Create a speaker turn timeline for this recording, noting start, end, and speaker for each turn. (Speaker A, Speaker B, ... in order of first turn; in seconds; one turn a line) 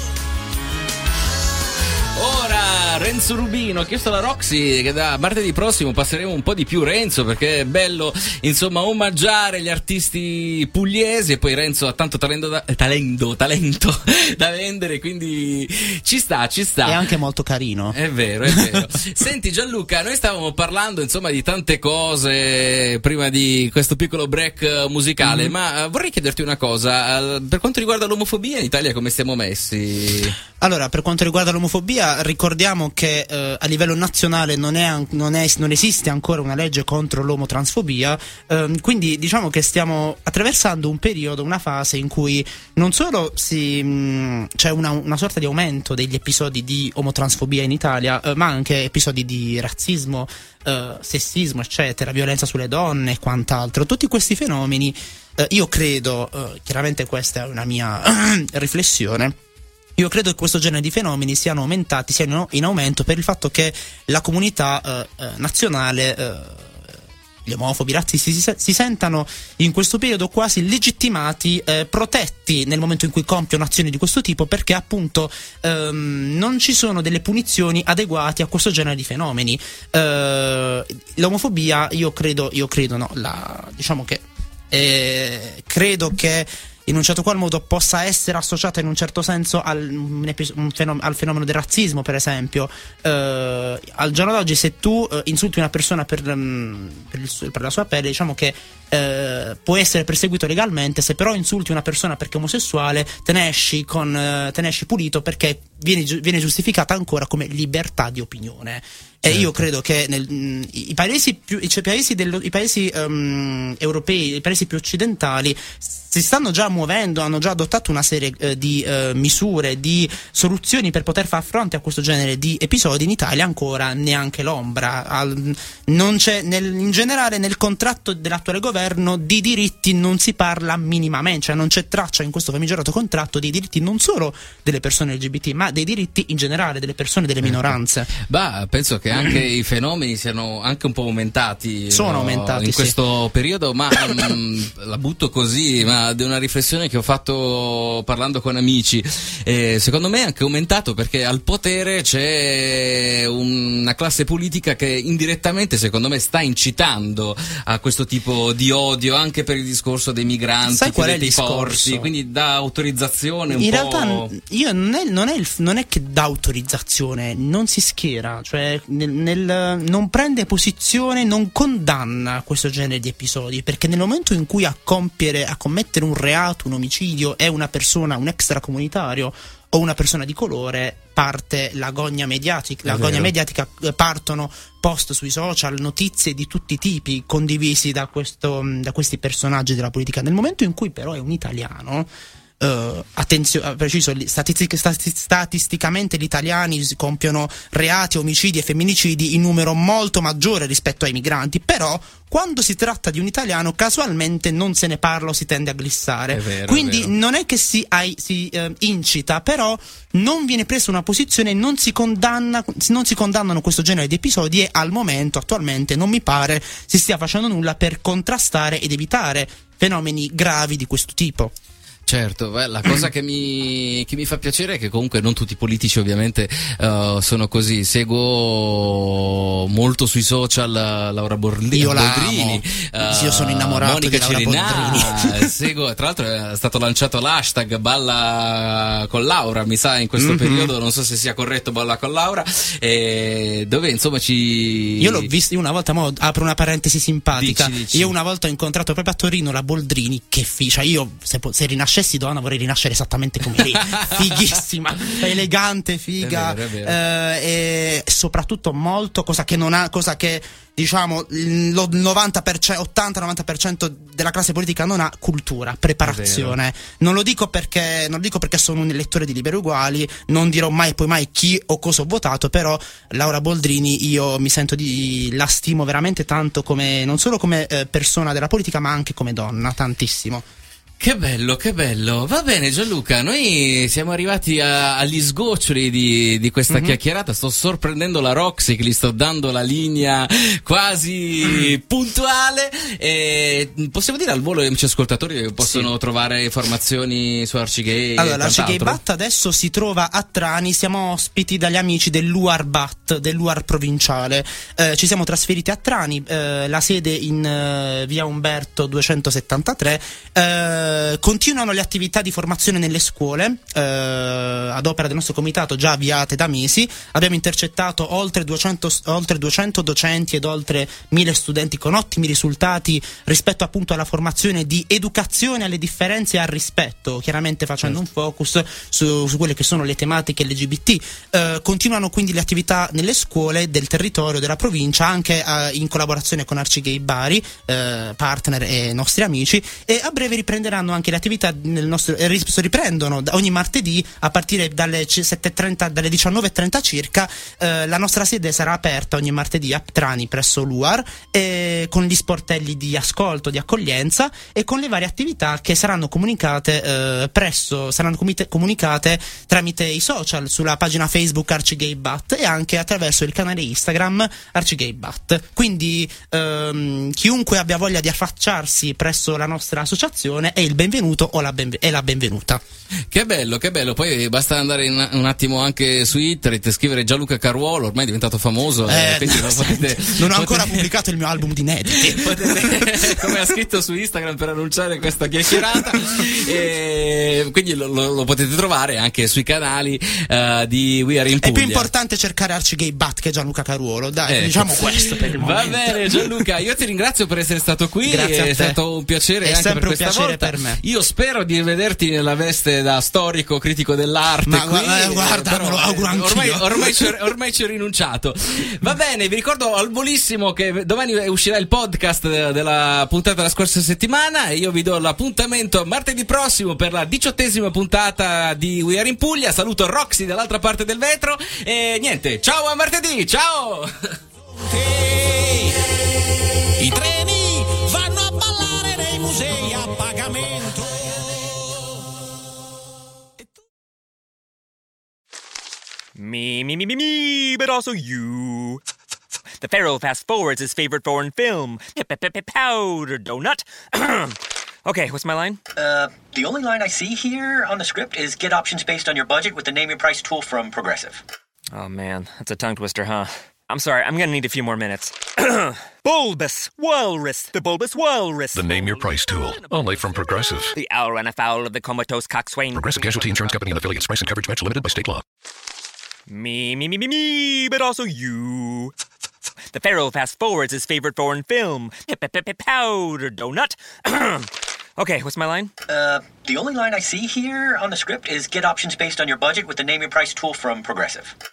Speaker A: 2.1-17.0
Speaker B: 16.8-18.0
Speaker A: 17.9-30.4
Speaker B: 18.5-18.8
Speaker B: 25.2-25.5
Speaker B: 30.6-59.4
Speaker B: 60.0-66.9
Speaker B: 67.5-138.1
Speaker A: 109.3-109.5
Speaker A: 137.4-164.3
Speaker B: 141.9-142.9
Speaker B: 160.6-162.1
Speaker B: 163.5-192.1
Speaker A: 182.9-183.3
Speaker B: 192.6-221.5
Speaker A: 206.3-207.1
Speaker A: 222.1-245.3
Speaker B: 231.7-235.5
Speaker B: 240.2-240.7
Speaker B: 245.0-280.4
Speaker A: 247.3-248.1
Speaker A: 254.9-255.3
Speaker A: 256.2-257.0
Speaker A: 266.0-266.6
Speaker A: 281.0-299.0
Speaker B: 286.7-287.0
Speaker B: 295.6-295.9
Speaker B: 298.2-372.6
Speaker A: 373.1-380.8
Speaker B: 378.9-383.6
Speaker A: 382.1-391.9
Speaker B: 385.5-385.9
Speaker B: 391.4-396.4
Speaker A: 394.3-423.9
Speaker B: 398.0-398.8
Speaker B: 399.4-400.8
Speaker B: 404.5-407.2
Speaker C: 424.5-425.9
Speaker C: 426.8-431.6
Speaker D: 436.2-438.8
Speaker D: 439.6-445.6
Speaker E: 445.8-451.2
Speaker D: 451.7-460.2
Speaker F: 458.6-460.8
Speaker D: 460.8-463.6
Speaker F: 462.7-465.2
Speaker D: 466.3-468.9
Speaker D: 469.7-475.7
Speaker E: 475.9-481.3